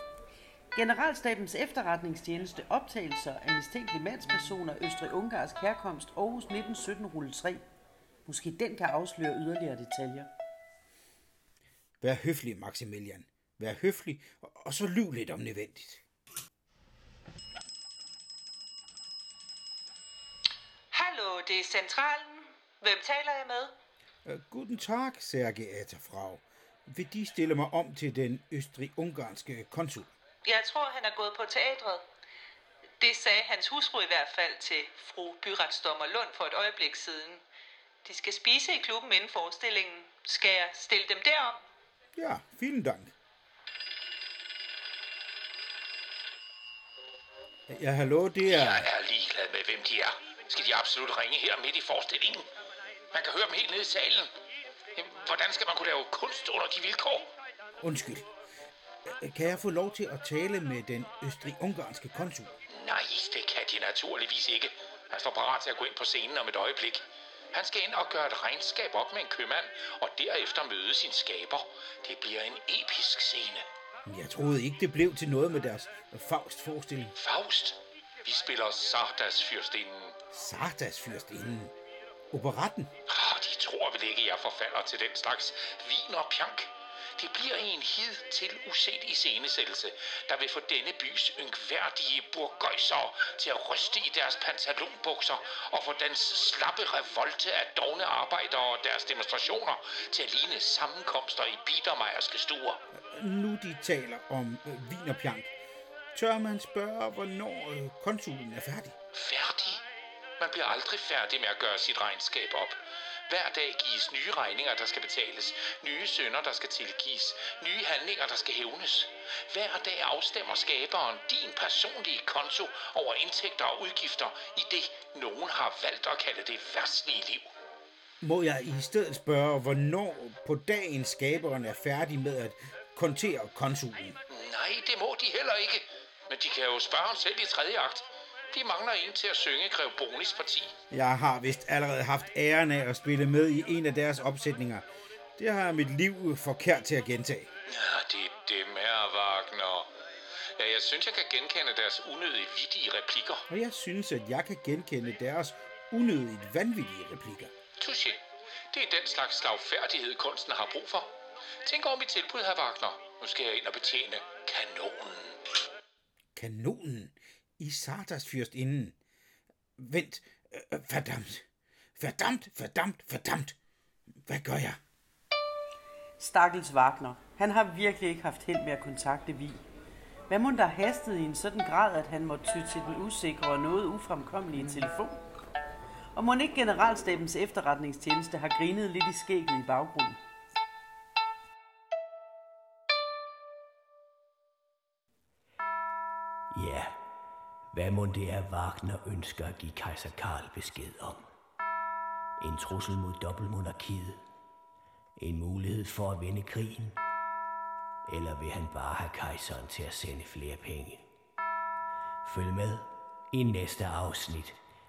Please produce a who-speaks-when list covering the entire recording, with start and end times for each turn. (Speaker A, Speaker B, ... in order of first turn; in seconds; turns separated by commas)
Speaker A: 0.7-7.7, Speaker A: 8.3-10.3, Speaker B: 12.0-16.0, Speaker C: 20.9-23.7, Speaker B: 24.2-30.1, Speaker C: 30.4-32.0, Speaker C: 33.0-37.4, Speaker C: 38.0-41.6, Speaker B: 42.2-43.1, Speaker B: 47.7-48.9, Speaker D: 48.5-52.5, Speaker D: 53.1-54.3, Speaker D: 55.0-57.3, Speaker B: 57.8-58.3, Speaker B: 59.0-62.5, Speaker D: 62.7-73.7, Speaker B: 74.1-77.2, Speaker D: 77.2-80.2, Speaker B: 80.3-81.8, Speaker B: 82.3-82.9, Speaker D: 83.1-102.8, Speaker B: 102.9-105.5, Speaker B: 106.2-109.0, Speaker D: 109.1-109.8, Speaker D: 110.4-127.5, Speaker B: 128.2-134.2, Speaker D: 134.3-140.7, Speaker B: 140.9-147.5, Speaker D: 147.7-149.9, Speaker D: 150.6-153.5, Speaker B: 153.5-157.5, Speaker D: 157.8-158.2, Speaker D: 158.7-161.1, Speaker D: 161.6-165.4, Speaker B: 166.4-169.0, Speaker B: 169.8-173.6, Speaker B: 174.2-174.8, Speaker A: 176.2-179.6, Speaker A: 180.3-185.2, Speaker A: 186.2-190.2, Speaker E: 196.5-196.9, Speaker E: 197.7-201.2, Speaker E: 202.4-204.2, Speaker E: 205.2-207.0, Speaker E: 208.1-211.0, Speaker E: 212.2-214.6